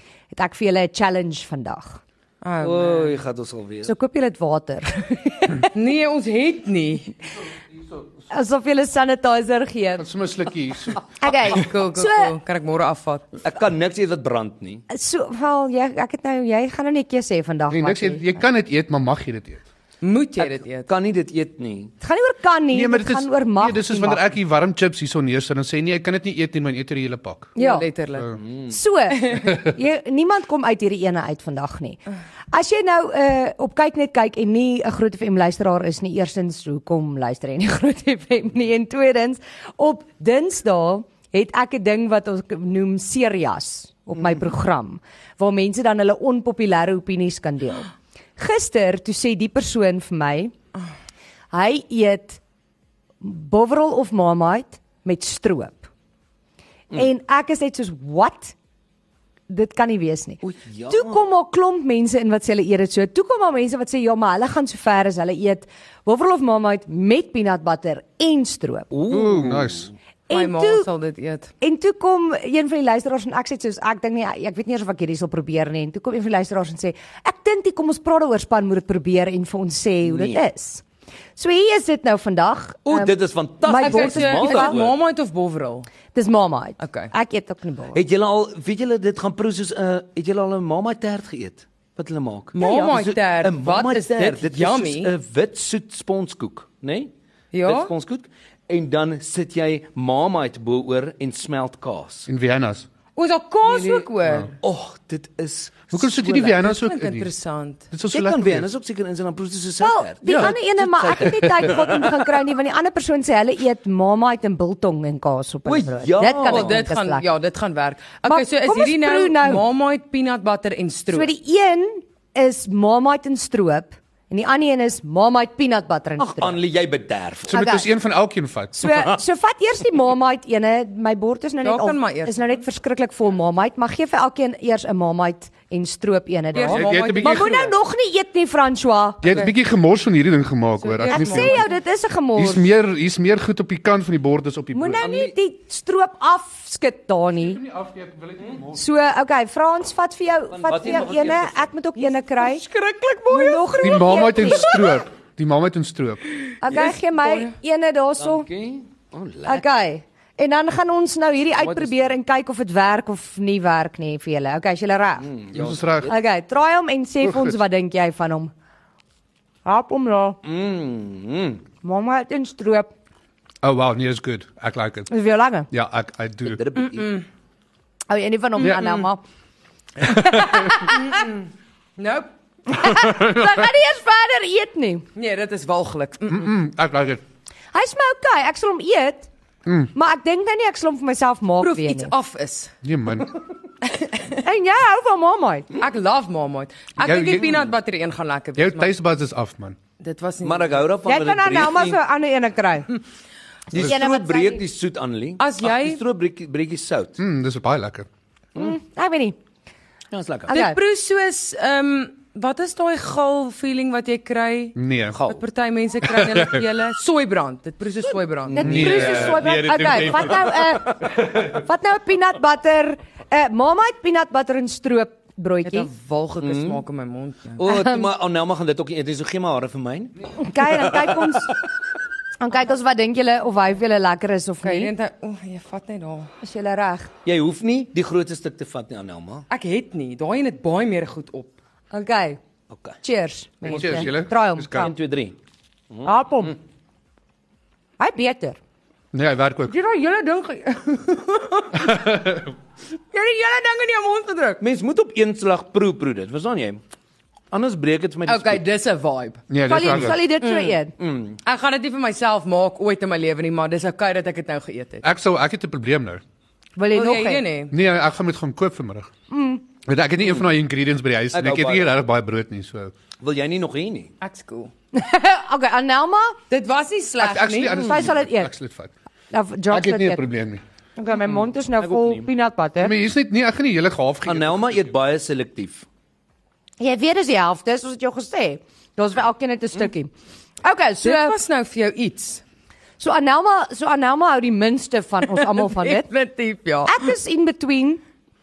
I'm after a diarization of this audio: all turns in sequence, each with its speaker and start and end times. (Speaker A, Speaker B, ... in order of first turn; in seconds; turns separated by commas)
Speaker A: 0.3-2.0, Speaker B: 2.4-3.2, Speaker C: 2.6-3.9, Speaker A: 3.9-5.7, Speaker B: 5.7-7.2, Speaker A: 8.3-10.1, Speaker D: 10.0-11.0, Speaker A: 11.1-12.3, Speaker B: 11.4-13.3, Speaker C: 13.4-14.8, Speaker A: 14.9-18.3, Speaker D: 17.7-19.6, Speaker B: 20.0-20.9, Speaker C: 20.4-21.9, Speaker A: 22.0-24.2, Speaker D: 22.7-27.5, Speaker B: 27.6-28.4, Speaker A: 27.6-27.9, Speaker C: 28.4-28.7, Speaker A: 28.7-32.0, Speaker B: 29.2-29.5, Speaker A: 32.5-50.5, Speaker A: 51.5-52.4, Speaker A: 53.2-55.9, Speaker A: 56.9-58.5, Speaker A: 59.5-68.9, Speaker C: 60.4-61.3, Speaker C: 68.9-69.9, Speaker D: 69.1-69.9, Speaker A: 70.3-70.9, Speaker B: 70.3-71.5, Speaker A: 71.6-80.8, Speaker C: 80.0-80.4, Speaker A: 81.3-84.8, Speaker C: 82.8-85.0, Speaker B: 83.8-85.9, Speaker A: 86.1-88.0, Speaker B: 86.8-87.1, Speaker C: 87.9-97.1, Speaker B: 92.5-95.1, Speaker B: 97.5-97.9, Speaker C: 97.6-102.3, Speaker D: 102.3-102.9, Speaker B: 103.2-104.5, Speaker C: 103.6-104.0, Speaker D: 104.2-104.5, Speaker C: 104.6-106.6, Speaker D: 105.9-107.3, Speaker B: 106.4-107.9, Speaker D: 107.9-108.7, Speaker C: 108.1-112.2, Speaker A: 109.8-117.3, Speaker D: 110.2-110.5, Speaker D: 111.2-111.7, Speaker C: 115.7-116.8, Speaker B: 116.4-121.3, Speaker A: 118.2-119.6, Speaker A: 121.1-126.6, Speaker C: 126.2-127.7, Speaker D: 127.5-128.7, Speaker A: 127.5-127.9, Speaker A: 128.7-139.4, Speaker C: 128.8-129.2, Speaker B: 131.6-132.4, Speaker B: 136.5-137.7, Speaker D: 136.6-137.7, Speaker D: 139.2-141.7, Speaker B: 139.3-139.5, Speaker B: 140.8-141.7, Speaker A: 141.1-142.7, Speaker D: 142.3-145.1, Speaker A: 144.7-147.6, Speaker C: 145.0-145.3, Speaker D: 147.4-148.8, Speaker A: 148.7-152.6, Speaker C: 150.5-152.1, Speaker B: 152.4-155.0, Speaker A: 153.3-154.7, Speaker D: 153.8-156.2, Speaker A: 156.6-158.5, Speaker B: 156.7-157.5, Speaker C: 158.2-159.6, Speaker A: 159.4-165.3, Speaker C: 161.5-162.1, Speaker C: 165.2-166.1, Speaker D: 165.5-166.1, Speaker A: 166.1-168.5, Speaker D: 167.2-167.6, Speaker A: 169.6-170.4, Speaker C: 170.4-171.6, Speaker A: 171.8-172.9, Speaker D: 173.6-175.1, Speaker A: 175.1-175.7, Speaker D: 175.7-176.6, Speaker C: 176.5-177.2, Speaker A: 178.1-179.2, Speaker D: 180.0-180.7, Speaker A: 180.0-181.1, Speaker B: 180.8-182.3, Speaker A: 182.7-185.0, Speaker D: 182.8-183.6, Speaker B: 185.2-186.5, Speaker D: 186.3-187.2, Speaker A: 187.7-189.3, Speaker D: 189.7-189.9, Speaker A: 189.9-192.1, Speaker B: 191.6-192.7, Speaker D: 192.8-193.3, Speaker B: 193.9-194.4, Speaker A: 194.4-195.7, Speaker B: 195.8-198.9, Speaker D: 197.0-197.6, Speaker C: 197.4-197.7, Speaker D: 198.6-199.8, Speaker B: 200.0-200.9, Speaker C: 200.4-202.0, Speaker A: 201.1-202.9, Speaker A: 203.7-204.6, Speaker C: 203.7-207.2, Speaker B: 205.4-206.0, Speaker D: 207.2-208.1, Speaker A: 208.6-209.3, Speaker C: 210.1-210.6, Speaker B: 210.5-214.8, Speaker A: 210.5-210.8, Speaker D: 214.8-215.2, Speaker C: 215.1-215.4, Speaker B: 215.3-219.3, Speaker D: 216.1-216.6, Speaker C: 218.5-221.1, Speaker A: 218.5-225.9, Speaker D: 218.6-220.6, Speaker D: 221.2-221.6, Speaker B: 225.6-227.6, Speaker C: 226.4-226.8, Speaker C: 227.6-230.1, Speaker A: 227.6-228.1, Speaker A: 230.4-231.6, Speaker C: 230.7-231.2, Speaker A: 232.4-234.9, Speaker B: 234.6-236.3, Speaker A: 236.4-237.1, Speaker C: 237.2-239.5, Speaker B: 239.5-241.5, Speaker A: 241.9-242.4, Speaker C: 242.7-243.0, Speaker A: 243.0-244.9, Speaker D: 243.7-244.9, Speaker C: 243.7-244.1, Speaker C: 244.7-245.3, Speaker A: 246.0-246.6, Speaker A: 248.0-248.6, Speaker D: 249.1-249.7, Speaker B: 249.7-252.1, Speaker D: 251.8-252.5, Speaker B: 253.1-254.6, Speaker C: 254.6-256.8, Speaker C: 257.5-258.6, Speaker B: 258.3-260.8, Speaker D: 259.5-260.2, Speaker A: 259.6-260.9, Speaker C: 261.0-261.4, Speaker B: 261.4-265.0, Speaker D: 265.0-266.2, Speaker A: 266.8-267.4, Speaker B: 266.9-267.7, Speaker D: 267.7-269.1, Speaker A: 269.3-269.6, Speaker D: 269.9-272.9, Speaker C: 271.3-271.9, Speaker C: 273.2-274.1, Speaker B: 274.2-274.7, Speaker A: 274.9-276.4, Speaker B: 276.5-277.8, Speaker D: 277.2-278.9, Speaker A: 277.7-278.5, Speaker A: 279.3-280.2, Speaker D: 279.7-280.6, Speaker A: 281.0-282.9, Speaker C: 281.8-282.2, Speaker D: 282.8-284.8, Speaker C: 284.2-285.9, Speaker A: 286.8-290.1, Speaker A: 290.6-291.4, Speaker B: 291.0-292.4, Speaker A: 293.0-296.1, Speaker B: 295.5-297.1, Speaker A: 296.8-298.0